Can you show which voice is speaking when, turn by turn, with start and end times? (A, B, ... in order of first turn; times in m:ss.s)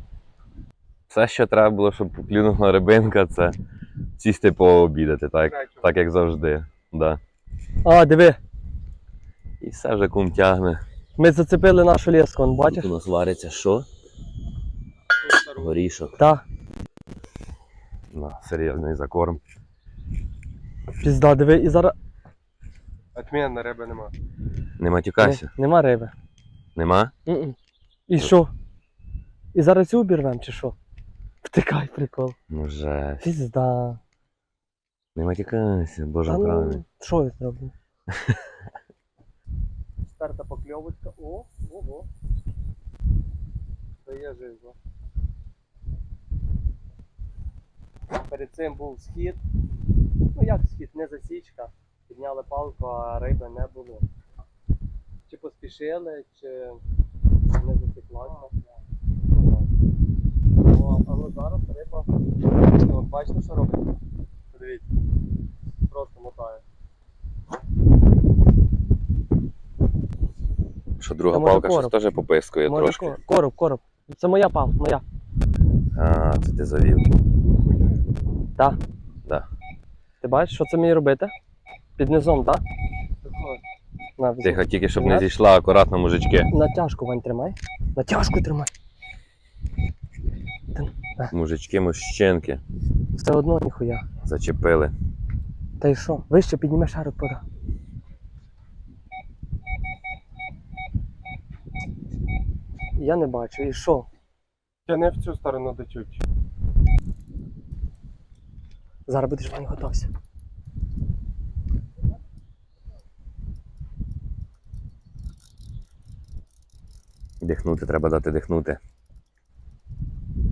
0:01.1-0:03.6 A
0:04.2-0:07.2 A
0:05.5-0:05.9 B
0:07.8-0:08.4 C
0:09.6-0:10.8 A
0:11.2-0:12.9 C
0:12.7-0:13.9 A
0:15.2-0:15.7 B
0:15.5-0:16.2 A
0:16.2-0:16.4 C
0:18.1-0:19.4 A
0:21.0-0:21.9 C
0:23.1-0:24.1 B
0:24.8-0:25.5 A
0:25.2-0:26.1 C
0:26.8-0:27.1 A
0:27.2-0:27.6 C
0:28.1-0:28.5 C
0:29.5-0:30.8 C
0:31.4-0:32.4 C
0:32.5-0:33.2 A
0:33.2-0:34.0 C
0:35.2-0:36.8 A
0:36.3-0:37.7 C
0:38.1-0:38.4 A
0:40.1-0:42.1 C
0:44.0-0:44.8 C
0:48.2-0:49.4 C
0:50.3-0:54.1 C
0:55.3-0:56.8 C
0:57.6-0:58.5 C
0:59.3-0:59.7 C
1:00.6-1:02.1 C
1:02.7-1:03.8 C
1:04.5-1:04.8 C
1:05.9-1:06.6 C
1:11.0-1:13.2 A
1:11.3-1:11.9 C
1:12.6-1:15.0 C
1:15.9-1:17.1 A
1:17.6-1:17.9 B
1:20.2-1:21.3 C
1:22.0-1:22.6 C
1:23.2-1:23.6 B
1:24.2-1:25.3 C
1:24.4-1:26.5 A
1:26.5-1:28.7 C
1:30.7-1:31.3 C
1:31.3-1:32.6 A
1:33.2-1:34.0 C
1:34.2-1:34.9 A
1:35.8-1:37.4 C
1:43.0-1:44.1 C
1:44.8-1:46.2 B
1:49.1-1:50.1 C
1:57.4-1:58.8 A